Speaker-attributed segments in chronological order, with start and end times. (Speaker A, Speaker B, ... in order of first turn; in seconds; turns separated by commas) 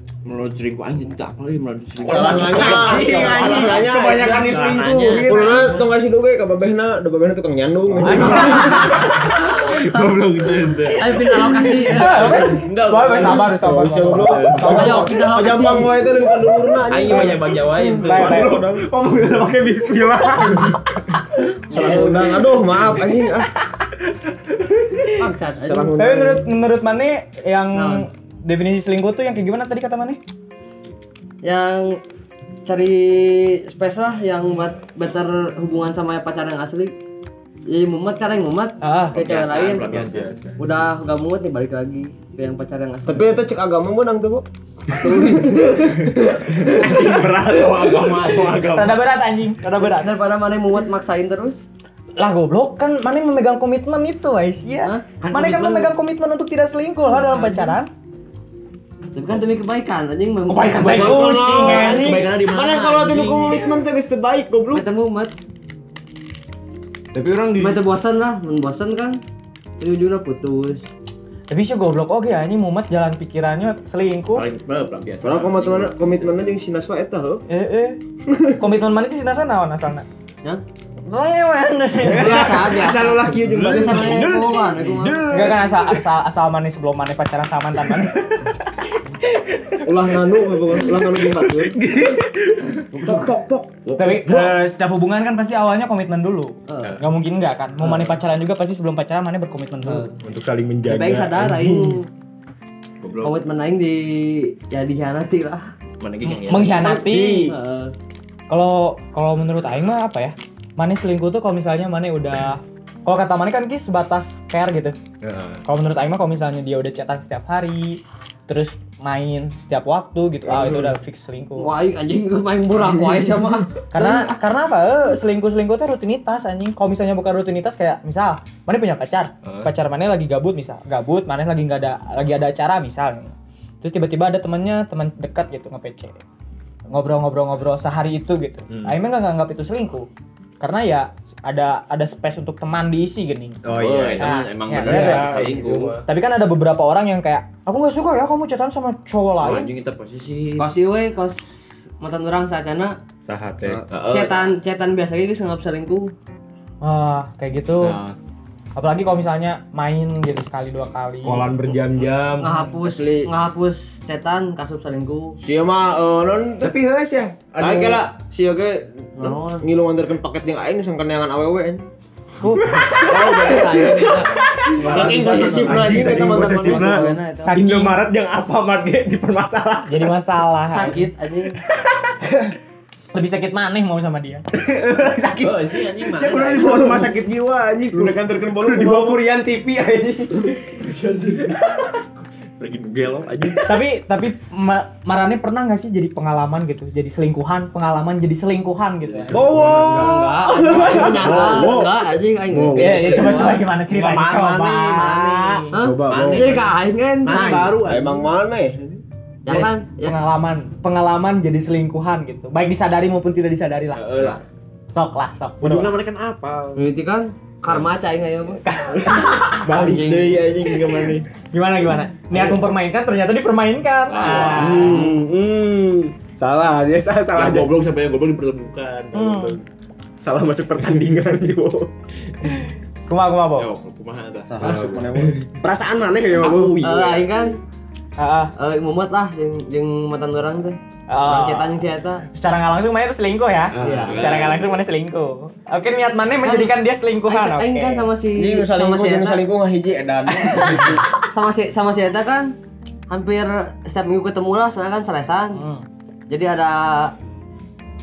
Speaker A: 0.2-5.9, Speaker B: 2.0-4.6, Speaker C: 2.1-5.8, Speaker B: 5.1-9.1, Speaker D: 8.0-9.3, Speaker E: 8.1-9.8, Speaker A: 9.0-13.6, Speaker C: 9.9-10.6, Speaker E: 10.9-12.4, Speaker D: 11.8-15.1, Speaker B: 13.4-18.9, Speaker A: 14.2-14.8, Speaker C: 14.3-14.7, Speaker E: 14.6-15.9, Speaker A: 16.9-18.5, Speaker D: 18.0-18.6, Speaker C: 18.1-21.2, Speaker B: 20.2-20.6, Speaker E: 21.7-22.5, Speaker B: 21.7-23.6, Speaker C: 24.5-25.2, Speaker E: 25.1-26.0, Speaker B: 25.6-26.4, Speaker D: 26.0-30.2, Speaker E: 27.7-28.1, Speaker E: 31.4-32.0, Speaker E: 32.6-37.0, Speaker E: 37.7-39.9, Speaker D: 38.8-39.2, Speaker A: 39.1-40.8, Speaker C: 39.9-40.4, Speaker E: 40.6-43.3, Speaker B: 43.0-44.5, Speaker E: 44.9-45.9, Speaker B: 45.0-47.1, Speaker C: 46.6-48.9, Speaker A: 46.6-49.0, Speaker D: 48.7-50.1, Speaker E: 49.7-51.6, Speaker D: 52.2-57.9, Speaker A: 55.2-55.9, Speaker E: 57.1-57.7, Speaker E: 59.1-61.4, Speaker C: 60.5-61.3, Speaker D: 60.6-62.2, Speaker B: 60.8-64.8, Speaker A: 61.5-63.9, Speaker E: 64.7-65.3, Speaker C: 67.1-67.8, Speaker E: 67.5-69.2, Speaker E: 69.8-70.9, Speaker D: 71.5-74.5, Speaker A: 74.3-76.3, Speaker B: 75.2-77.4, Speaker D: 77.5-78.0, Speaker D: 78.6-80.0, Speaker D: 81.0-82.6, Speaker C: 82.0-82.6, Speaker B: 82.1-84.4, Speaker E: 82.1-85.2, Speaker C: 83.3-85.8, Speaker D: 85.3-89.1, Speaker B: 89.8-91.8, Speaker C: 91.2-93.0, Speaker B: 92.9-94.2, Speaker D: 94.0-100.1, Speaker E: 96.7-97.0, Speaker E: 97.8-98.1, Speaker E: 99.8-100.2, Speaker C: 100.2-102.0, Speaker E: 100.8-102.1, Speaker A: 103.0-103.4, Speaker E: 103.2-105.7, Speaker A: 106.0-107.2, Speaker D: 106.3-107.5, Speaker C: 107.0-107.5, Speaker E: 107.5-107.9, Speaker D: 108.5-115.0, Speaker A: 115.2-115.6, Speaker D: 115.6-121.7, Speaker E: 121.6-124.4, Speaker D: 123.9-136.2, Speaker D: 136.9-140.1, Speaker C: 138.7-139.0, Speaker D: 140.6-143.6, Speaker C: 143.6-146.1, Speaker A: 143.6-146.0, Speaker D: 144.2-145.4, Speaker D: 146.1-149.7, Speaker A: 149.4-150.7, Speaker E: 150.6-153.0, Speaker C: 153.2-153.8, Speaker E: 153.6-156.1, Speaker A: 153.8-154.5, Speaker D: 156.8-158.0, Speaker D: 158.8-161.5, Speaker C: 161.2-162.7, Speaker E: 161.7-165.4, Speaker B: 162.8-163.3, Speaker B: 165.4-166.8, Speaker C: 166.6-168.1, Speaker B: 167.6-171.8, Speaker E: 169.2-169.6, Speaker D: 172.4-173.3, Speaker C: 172.6-173.0, Speaker A: 172.9-175.6, Speaker B: 173.0-177.1, Speaker C: 174.4-180.1, Speaker E: 174.9-177.6, Speaker D: 177.4-178.1, Speaker D: 179.9-181.0, Speaker E: 180.7-181.6, Speaker D: 183.1-184.4, Speaker C: 184.5-191.8, Speaker A: 185.4-187.0, Speaker B: 186.4-187.1, Speaker B: 187.9-189.2, Speaker A: 192.6-193.8, Speaker D: 193.7-199.4, Speaker A: 199.1-200.7, Speaker C: 199.3-200.2, Speaker B: 199.3-201.9, Speaker E: 199.8-203.6, Speaker C: 200.8-201.9, Speaker C: 202.4-203.3, Speaker D: 202.7-205.6, Speaker B: 203.3-205.7, Speaker A: 205.3-206.7, Speaker E: 205.7-207.4, Speaker C: 205.7-206.6, Speaker A: 207.2-208.3, Speaker B: 207.4-209.0, Speaker C: 207.4-207.7, Speaker E: 209.4-210.2, Speaker D: 209.5-214.3, Speaker A: 213.9-214.4, Speaker D: 214.9-215.9, Speaker A: 215.6-216.8, Speaker E: 216.8-218.6, Speaker D: 218.6-220.0, Speaker C: 219.1-221.2, Speaker E: 219.7-220.9, Speaker D: 221.5-225.1, Speaker E: 222.3-222.6, Speaker A: 224.1-225.1, Speaker B: 224.4-225.1, Speaker C: 224.5-227.8, Speaker A: 227.3-229.6, Speaker D: 229.1-229.6, Speaker C: 230.2-231.9, Speaker D: 233.1-233.7, Speaker A: 233.6-235.1, Speaker B: 234.5-235.4, Speaker C: 234.6-236.8, Speaker A: 236.4-237.4, Speaker E: 236.8-237.6, Speaker D: 238.2-238.5, Speaker E: 238.6-242.2, Speaker D: 241.1-241.8, Speaker D: 242.3-248.1, Speaker A: 243.7-244.6, Speaker E: 243.8-244.4, Speaker E: 246.4-246.7, Speaker E: 247.3-249.4, Speaker B: 248.3-251.0, Speaker D: 250.3-251.1, Speaker E: 250.6-252.5, Speaker E: 253.1-255.6, Speaker D: 255.5-255.8, Speaker E: 256.3-257.1